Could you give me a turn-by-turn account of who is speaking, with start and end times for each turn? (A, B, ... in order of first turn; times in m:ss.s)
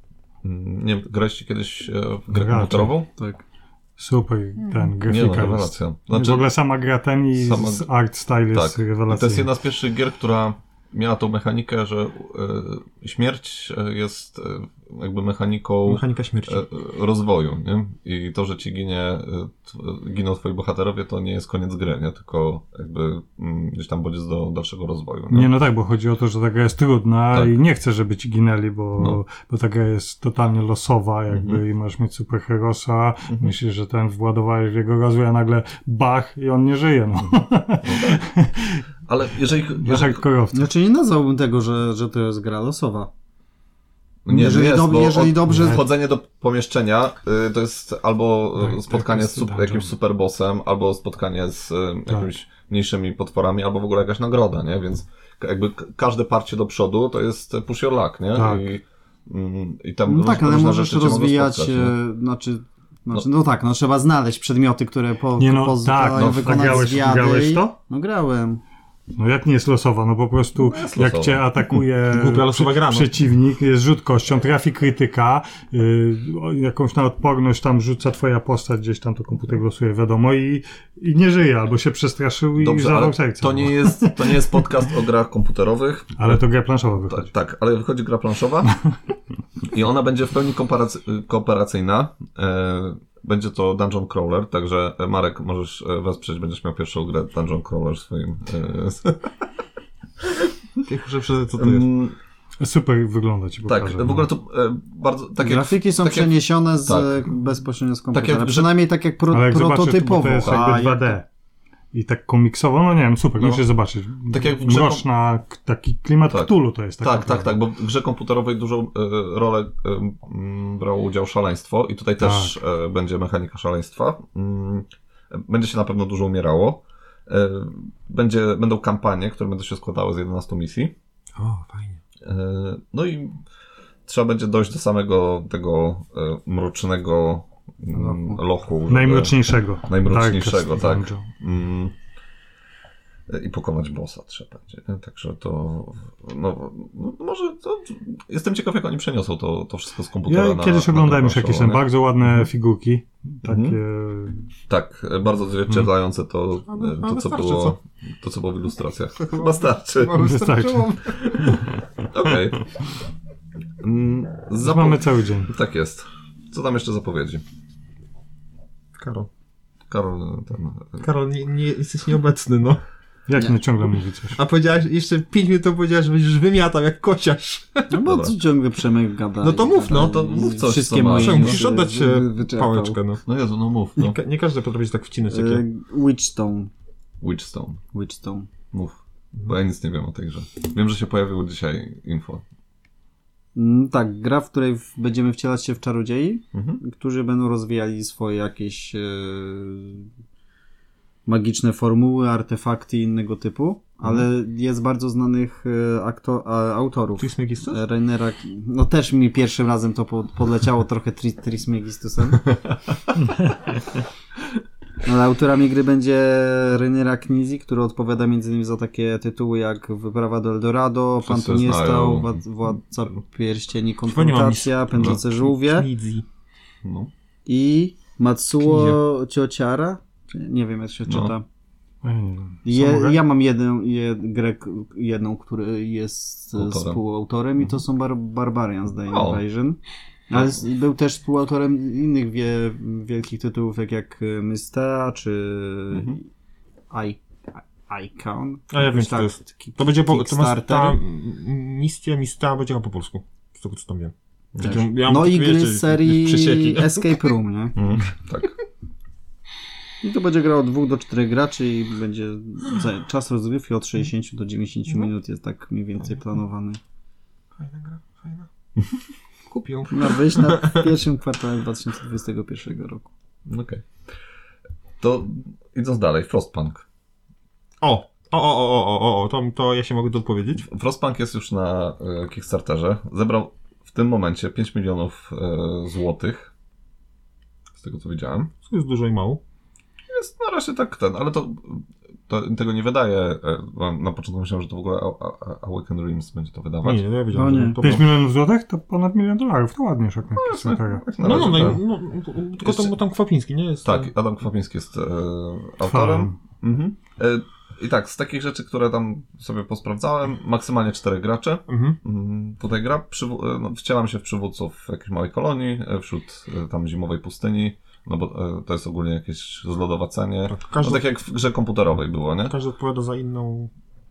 0:00.4-0:03.1 A
0:02.3-0:03.0 B
0:03.2-0:03.4 C
0:04.0-0:09.5 B
0:04.6-0:04.9 D
0:05.0-0:06.5 A
0:07.4-0:07.9 A
0:08.5-0:25.5 A
0:15.8-0:16.7 D
0:25.3-0:38.8 B
0:31.3-0:31.6 A
0:33.3-0:33.5 A
0:37.8-0:38.2 A
0:39.1-0:40.2 A
0:39.8-0:40.7 B
0:40.5-0:43.1 C
0:44.2-1:02.0 A
0:44.3-0:45.8 C
0:45.5-0:45.8 B
0:48.6-0:49.9 B
0:58.4-0:58.6 B
1:00.1-1:08.6 C
1:05.4-1:07.7 B
1:06.2-1:06.7 A
1:09.2-1:24.5 B
1:10.6-1:11.4 A
1:12.0-1:13.1 D
1:22.6-1:26.4 A
1:26.2-1:27.3 B
1:27.1-1:28.7 A
1:29.6-1:39.4 A
1:40.2-1:40.5 A
1:40.8-1:41.9 D
1:41.5-1:42.2 A
1:42.6-1:44.3 B
1:43.7-1:47.2 A
1:45.4-1:51.2 C
1:48.1-1:48.7 A
1:49.3-1:51.2 B
1:51.9-1:57.5 B
1:54.3-1:55.0 A
1:56.3-2:10.9 A
2:02.2-2:02.6 B
2:11.4-2:12.0 D
2:12.2-2:13.4 A
2:14.1-2:22.0 A
2:17.9-2:18.4 C
2:18.9-2:21.3 B
2:23.3-2:31.8 A
2:30.3-2:34.5 B
2:33.4-2:33.8 A
2:34.7-2:40.3 A
2:36.7-2:37.8 D
2:39.2-2:41.4 D
2:40.2-2:41.8 B
2:41.2-2:41.6 A
2:42.1-2:42.7 A
2:43.8-2:47.4 A
2:44.6-2:45.5 B
2:49.0-2:49.3 D
2:49.9-2:51.1 A
2:51.0-2:52.8 D
2:53.3-2:54.4 B
2:54.4-2:58.0 D
2:57.9-3:03.0 C
2:58.0-2:58.4 A
2:59.4-3:00.3 D
2:59.9-3:01.6 A
3:01.1-3:03.2 D
3:03.3-3:04.2 A
3:04.0-3:05.6 D
3:05.3-3:06.7 C
3:07.2-3:07.8 A
3:07.9-3:08.5 C
3:08.7-3:12.4 A
3:13.6-3:20.1 C
3:16.5-3:16.8 A
3:21.3-3:32.5 C
3:27.2-3:27.8 D
3:33.2-3:33.6 B
3:35.0-3:45.9 C
3:41.2-3:42.4 A
3:44.1-3:46.2 D
3:46.8-3:47.1 A
3:47.5-3:51.4 C
3:48.6-3:49.0 D
3:51.1-3:51.3 A
3:52.0-3:53.2 B
3:52.7-4:06.2 C
3:56.6-3:57.0 A
3:59.1-3:59.4 A
4:05.9-4:06.2 A
4:06.9-4:11.0 C
4:08.7-4:17.3 D
4:14.5-4:14.8 A
4:14.6-4:17.8 C
4:17.8-4:18.6 A
4:20.0-4:26.8 C
4:27.6-4:28.5 D
4:29.5-4:30.9 D
4:29.9-4:33.1 C
4:33.5-4:33.9 A
4:35.0-4:36.8 A
4:37.8-4:40.6 D
4:40.6-4:46.5 A
4:47.7-4:48.5 A
4:48.6-4:49.4 D
4:50.1-4:57.0 A
4:56.8-4:58.1 D
4:57.3-4:57.8 C
4:57.8-5:01.7 B
5:00.4-5:01.8 A
5:01.2-5:04.1 D
5:02.6-5:03.0 A
5:03.8-5:22.6 A
5:05.9-5:06.4 B
5:11.7-5:12.0 D
5:20.5-5:21.0 D
5:22.5-5:23.7 D